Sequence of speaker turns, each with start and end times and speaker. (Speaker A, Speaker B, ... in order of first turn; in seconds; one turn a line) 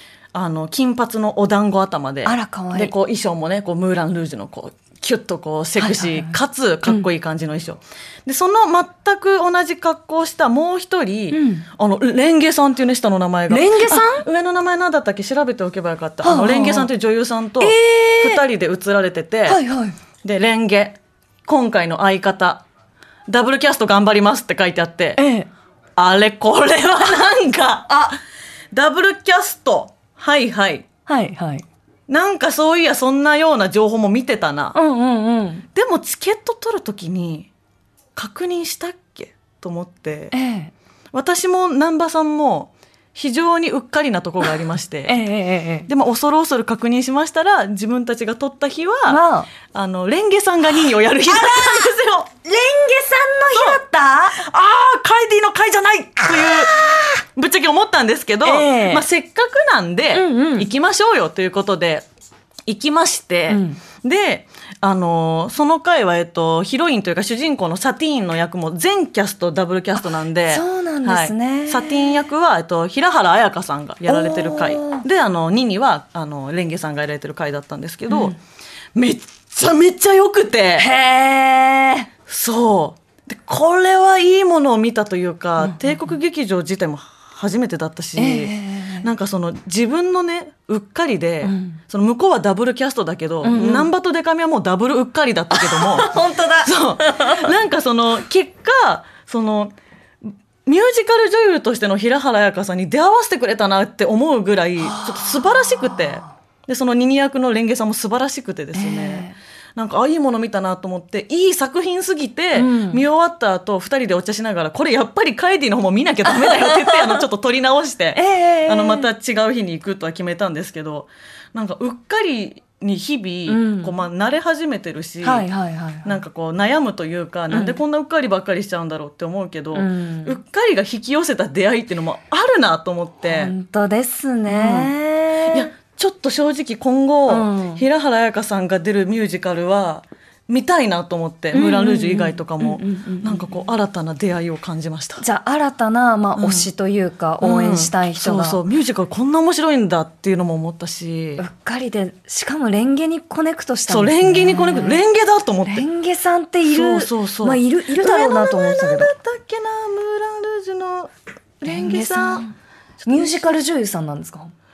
Speaker A: 0.3-19.6
Speaker B: 2.2-2.9
Speaker B: 5.8-6.3
Speaker B: 11.3-11.7
Speaker B: 13.5-14.2
Speaker B: 16.2-16.9
Speaker B: 17.6-18.4
Speaker B: 19.5-19.9
Speaker A: 20.2-22.6
Speaker A: 23.3-25.2
Speaker B: 25.2-25.5
Speaker A: 26.0-28.1
Speaker A: 28.7-30.8
Speaker B: 31.1-31.6
Speaker A: 32.1-34.7
Speaker B: 34.7-35.6
Speaker A: 35.7-37.5
Speaker A: 38.1-40.3
Speaker B: 40.3-40.7
Speaker A: 41.1-45.1
Speaker B: 45.1-45.9
Speaker A: 45.9-49.2
Speaker B: 49.1-49.5
Speaker A: 49.7-52.3
Speaker B: 51.3-51.9
Speaker B: 52.4-54.4
Speaker A: 53.5-53.8
Speaker A: 54.4-62.0
Speaker B: 56.4-57.0
Speaker B: 58.4-59.0
Speaker B: 60.1-60.7
Speaker A: 62.7-78.3
Speaker B: 63.5-63.8
Speaker B: 70.0-72.3
Speaker B: 74.1-75.0
Speaker B: 78.1-78.3
Speaker A: 78.9-80.9
Speaker B: 80.8-82.1
Speaker A: 82.3-99.7
Speaker B: 85.6-86.0
Speaker B: 88.2-89.0
Speaker B: 91.4-91.8
Speaker B: 93.4-93.9
Speaker B: 95.5-97.5
Speaker A: 100.7-125.5
Speaker B: 104.8-106.3
Speaker B: 108.7-109.3
Speaker B: 112.5-113.0
Speaker B: 116.2-117.2
Speaker B: 118.1-119.1
Speaker B: 123.5-123.9
Speaker B: 125.2-126.2
Speaker A: 126.0-133.5
Speaker B: 127.5-127.8
Speaker B: 129.7-130.4
Speaker B: 133.2-135.7
Speaker A: 134.5-134.9
Speaker A: 135.4-145.2
Speaker B: 137.3-137.8
Speaker B: 141.5-143.6
Speaker B: 145.2-148.6
Speaker A: 146.3-146.7
Speaker A: 147.4-151.4
Speaker B: 151.4-155.0
Speaker A: 153.9-155.8
Speaker B: 155.7-159.1
Speaker A: 156.7-161.1
Speaker B: 161.6-162.5
Speaker A: 161.6-162.4
Speaker A: 163.0-163.6
Speaker B: 163.1-164.5